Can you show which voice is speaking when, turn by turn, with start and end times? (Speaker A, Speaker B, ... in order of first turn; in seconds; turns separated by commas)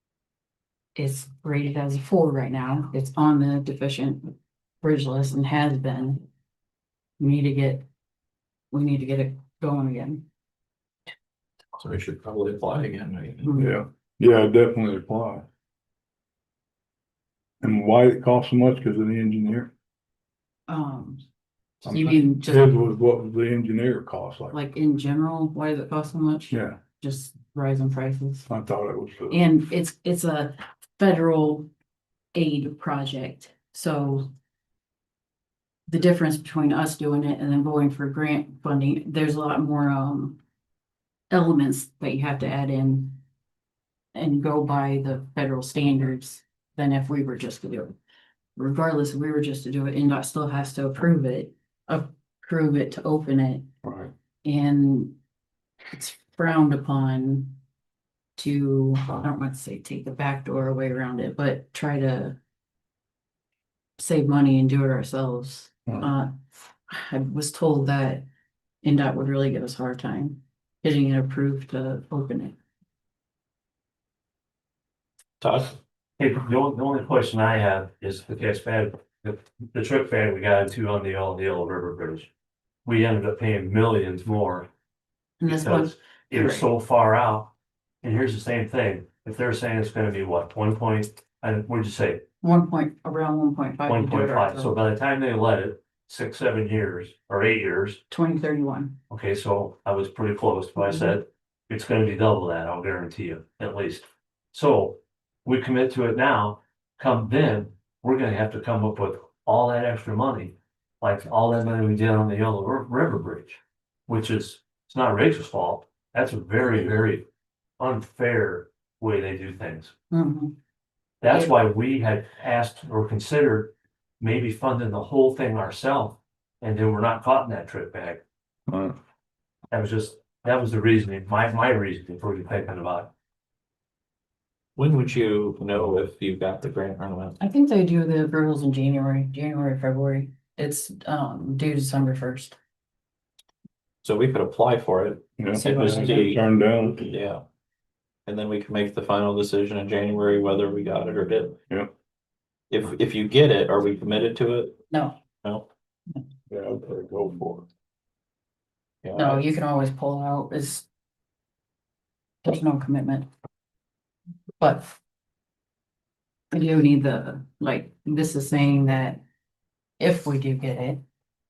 Speaker A: 0.9-6.2, Speaker A: 7.2-7.8, Speaker A: 8.7-10.3, Speaker B: 11.8-13.5, Speaker A: 13.4-13.8, Speaker C: 13.6-15.5, Speaker C: 17.6-19.7, Speaker A: 20.7-21.2, Speaker A: 21.8-22.8, Speaker C: 21.8-24.6, Speaker A: 24.5-28.5, Speaker C: 26.5-26.8, Speaker C: 28.5-29.4, Speaker A: 29.3-31.7, Speaker A: 32.3-34.3, Speaker A: 35.9-40.4, Speaker A: 41.3-43.2, Speaker A: 44.1-48.0, Speaker A: 48.6-53.7, Speaker C: 53.8-54.1, Speaker A: 54.4-55.2, Speaker A: 55.9-57.6, Speaker A: 58.4-62.4, Speaker A: 64.0-68.2, Speaker A: 68.8-72.6, Speaker B: 75.4-75.8, Speaker D: 76.2-82.3, Speaker D: 82.8-84.7, Speaker A: 85.4-86.7, Speaker D: 85.5-87.5, Speaker D: 88.0-92.2, Speaker A: 92.4-94.8, Speaker D: 93.9-98.0, Speaker A: 98.1-99.0, Speaker D: 99.1-117.2, Speaker D: 117.8-119.9, Speaker A: 120.1-120.5, Speaker D: 121.2-128.2, Speaker A: 121.3-121.5, Speaker C: 128.7-129.0, Speaker D: 129.7-133.1, Speaker B: 134.8-137.4, Speaker A: 137.4-142.6, Speaker B: 144.0-146.4, Speaker C: 145.4-147.1, Speaker A: 145.6-146.3, Speaker B: 147.0-147.4, Speaker B: 148.3-151.6, Speaker B: 152.7-154.8, Speaker A: 154.9-155.2, Speaker C: 156.5-157.7, Speaker B: 159.0-159.4, Speaker A: 159.2-160.9, Speaker A: 162.4-163.3, Speaker A: 164.6-165.0, Speaker A: 166.5-169.2, Speaker A: 170.0-171.0